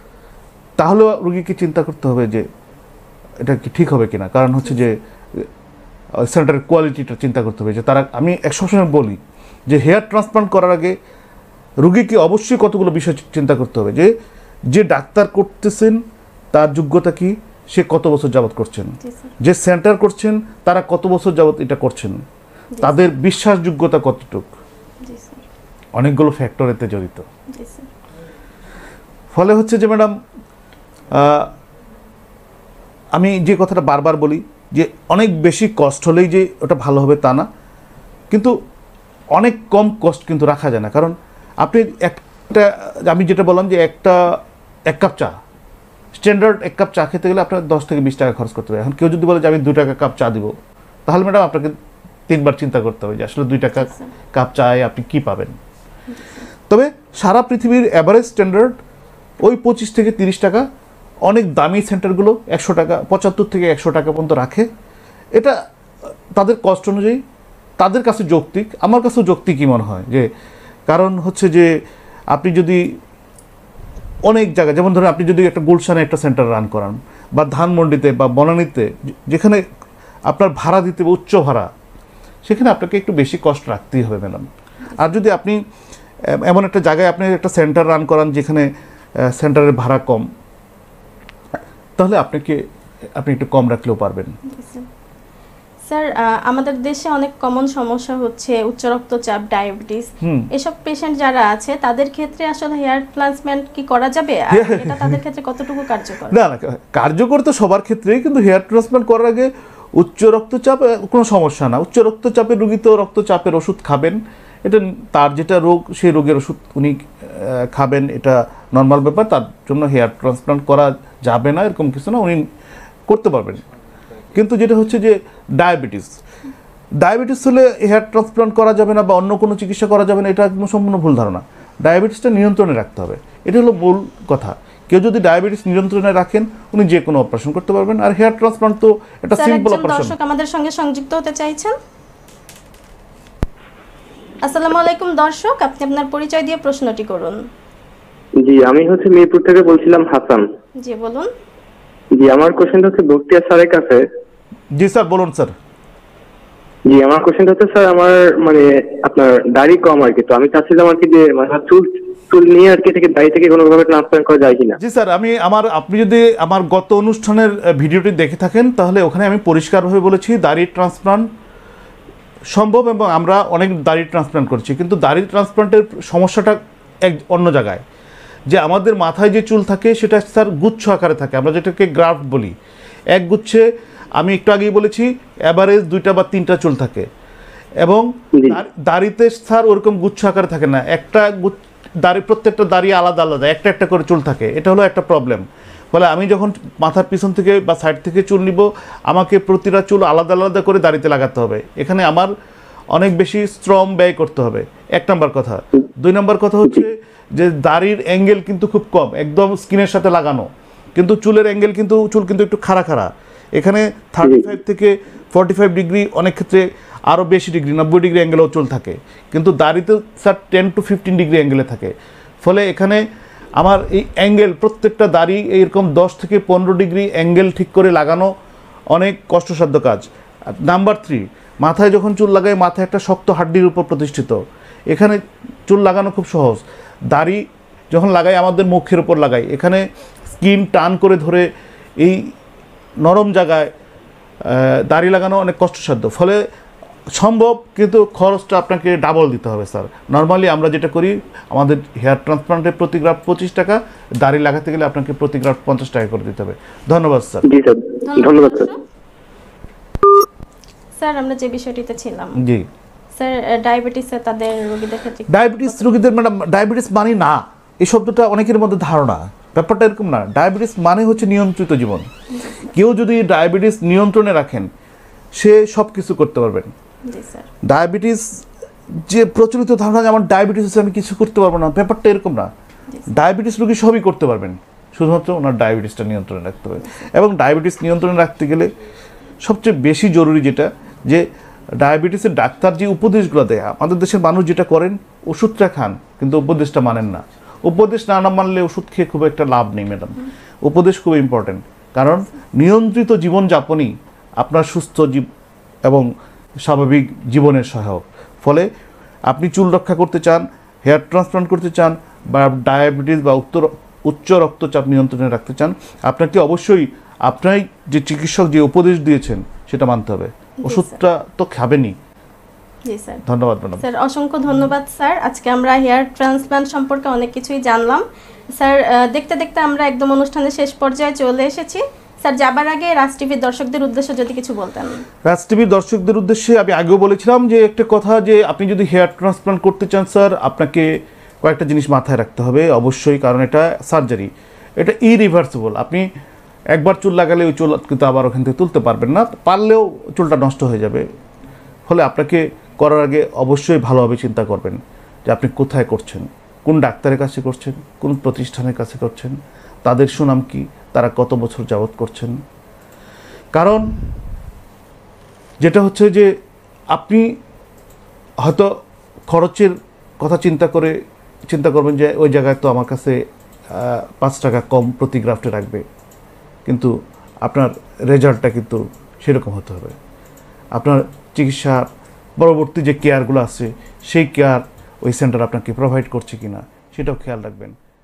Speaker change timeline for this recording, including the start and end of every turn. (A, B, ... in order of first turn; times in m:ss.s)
0:00.8-0:02.5 A
0:03.4-0:05.5 A
0:06.2-0:11.0 A
0:11.8-0:14.1 A
0:14.7-0:16.0 A
0:16.5-0:22.2 A
0:19.0-0:19.3 B
0:22.7-0:23.1 B
0:22.8-0:24.5 A
0:25.0-0:25.4 B
0:25.9-0:27.2 A
0:27.5-0:27.9 B
0:29.3-0:30.1 A
0:31.1-0:31.5 A
0:33.1-0:37.5 A
0:38.3-0:38.6 A
0:39.3-0:45.3 A
0:46.2-0:50.5 A
0:51.0-0:51.8 A
0:52.3-0:55.6 A
0:56.1-0:56.4 B
0:56.7-0:58.8 A
0:59.4-1:00.6 A
1:01.2-1:04.7 A
1:06.3-1:07.2 A
1:07.8-1:10.3 A
1:10.9-1:11.7 A
1:12.3-1:12.8 A
1:14.3-1:19.6 A
1:20.3-1:21.7 A
1:22.4-1:25.6 A
1:26.3-1:30.2 A
1:32.0-1:32.6 A
1:33.2-1:34.4 A
1:34.4-1:34.8 B
1:35.8-1:46.4 B
1:40.2-1:40.5 A
1:44.5-1:45.2 A
1:46.3-2:02.4 A
2:03.1-2:03.6 A
2:04.3-2:06.2 A
2:07.0-2:20.1 A
2:19.4-2:21.7 B
2:24.4-2:27.4 B
2:28.4-2:30.4 C
2:30.8-2:31.3 B
2:32.1-2:34.0 C
2:34.7-2:35.5 A
2:36.8-2:44.8 C
2:44.8-2:51.3 A
2:52.5-2:57.8 A
2:58.5-3:02.6 A
3:03.1-3:07.1 A
3:07.8-3:22.3 A
3:22.9-3:43.0 A
3:43.6-3:48.3 A
3:48.9-4:02.3 A
4:03.0-4:03.7 A
4:04.4-4:06.4 A
4:07.1-4:17.4 A
4:17.4-4:18.7 C
4:18.0-4:18.8 B
4:21.0-4:22.4 B
4:22.4-4:22.7 A
4:23.1-4:25.8 B
4:25.3-4:32.1 A
4:32.3-4:32.7 B
4:32.7-4:34.7 A
4:35.4-4:36.7 A
4:37.0-4:37.5 B
4:37.6-4:38.4 A
4:38.9-4:42.5 A
4:43.1-4:48.7 A
4:49.4-5:05.2 A
5:06.6-5:08.7 A
5:09.3-5:22.0 A
5:20.6-5:21.0 B
5:22.8-5:23.2 B
5:23.2-5:23.8 A
5:23.8-5:35.0 B
5:35.2-5:46.1 A
5:46.7-5:51.0 A
5:51.9-6:02.4 A
6:03.5-6:04.0 A
6:05.6-6:06.3 A
6:06.9-6:07.4 A
6:08.4-6:08.7 A
6:09.3-6:11.0 A
6:11.5-6:15.8 A
6:16.6-6:20.0 A
6:20.7-6:21.9 A
6:22.4-6:27.8 A